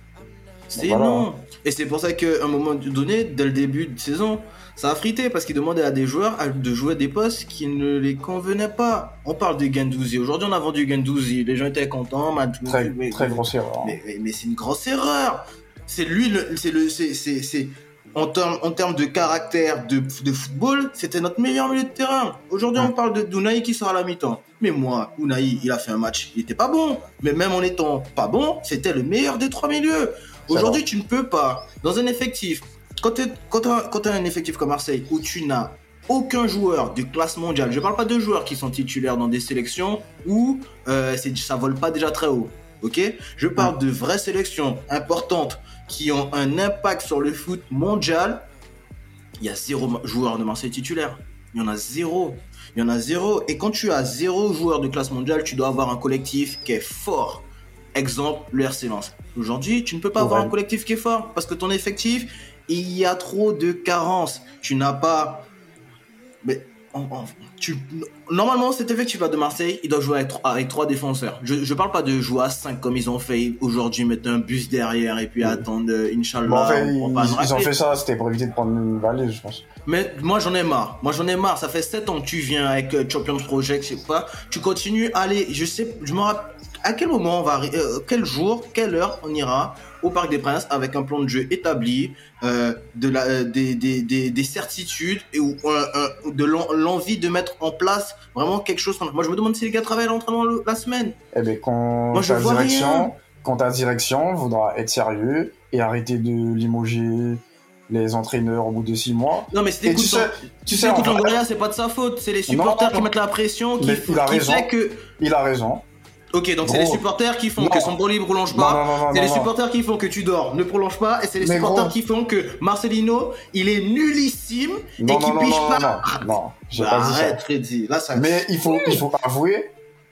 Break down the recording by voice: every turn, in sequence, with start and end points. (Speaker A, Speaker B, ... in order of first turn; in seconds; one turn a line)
Speaker A: 0.7-48.5
Speaker B: 0.7-1.3
Speaker B: 12.7-14.0
Speaker B: 30.5-30.8
Speaker A: 49.4-65.5
Speaker B: 60.1-60.5
Speaker A: 66.4-77.7
Speaker B: 75.4-75.6
Speaker B: 76.4-79.7
Speaker A: 79.8-101.2
Speaker B: 101.3-111.4
Speaker A: 102.1-103.1
Speaker A: 109.5-115.0
Speaker B: 112.5-113.1
Speaker B: 113.8-115.8
Speaker A: 116.3-129.0
Speaker B: 116.6-117.0
Speaker B: 117.6-118.0
Speaker B: 118.5-119.5
Speaker B: 121.4-122.0
Speaker B: 125.0-127.4
Speaker B: 128.1-129.7